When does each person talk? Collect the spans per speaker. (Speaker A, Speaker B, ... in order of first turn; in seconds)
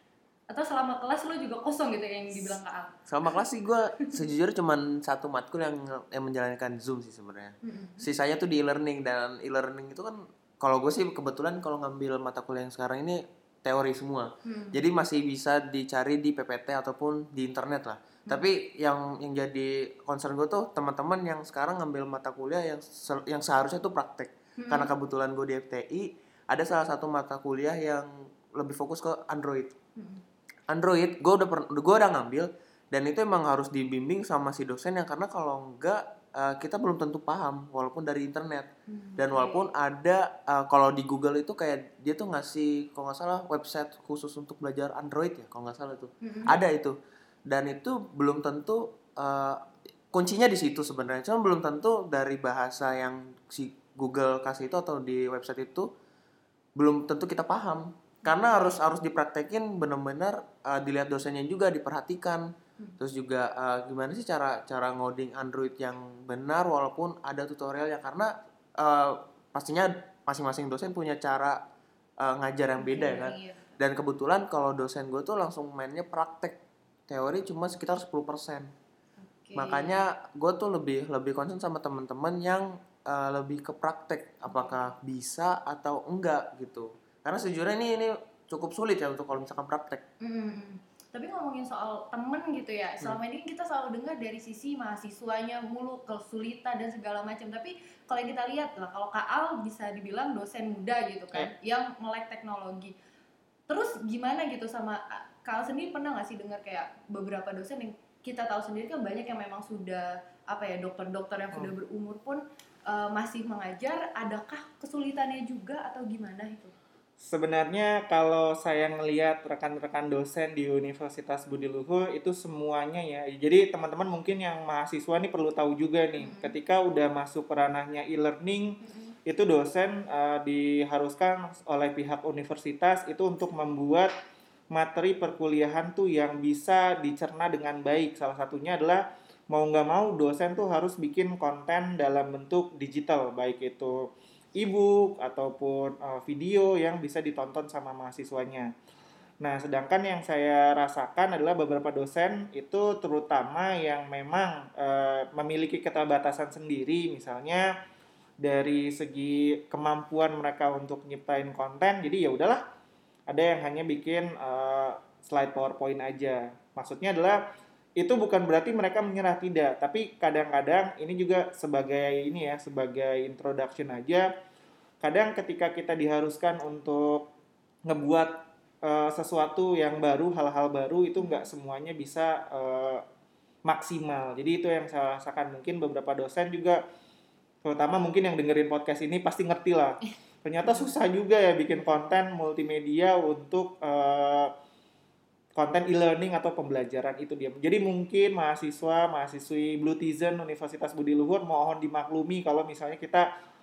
Speaker A: 0.5-3.0, 7.6-8.1, 14.4-14.8, 24.6-24.9, 29.9-30.2, 38.9-39.7, 46.2-46.6, 58.2-58.8, 72.8-73.6, 79.2-80.0, 84.4-84.9, 90.2-102.9, 103.7-116.7, 126.2-126.5, 128.8-129.1, 181.2-181.5, 190.6-190.9, 191.7-192.2
Speaker B: 3.1-29.7, 30.7-47.0, 47.5-55.9, 56.8-62.5, 63.0-71.6, 72.2-76.6, 77.1-78.7, 79.5-90.0
Speaker C: 117.2-134.1, 134.7-148.7, 149.4-157.7, 158.4-162.6, 163.3-167.4, 168.0-174.3, 175.0-177.3, 177.8-183.0, 183.7-186.8, 187.6-194.5, 195.5-203.3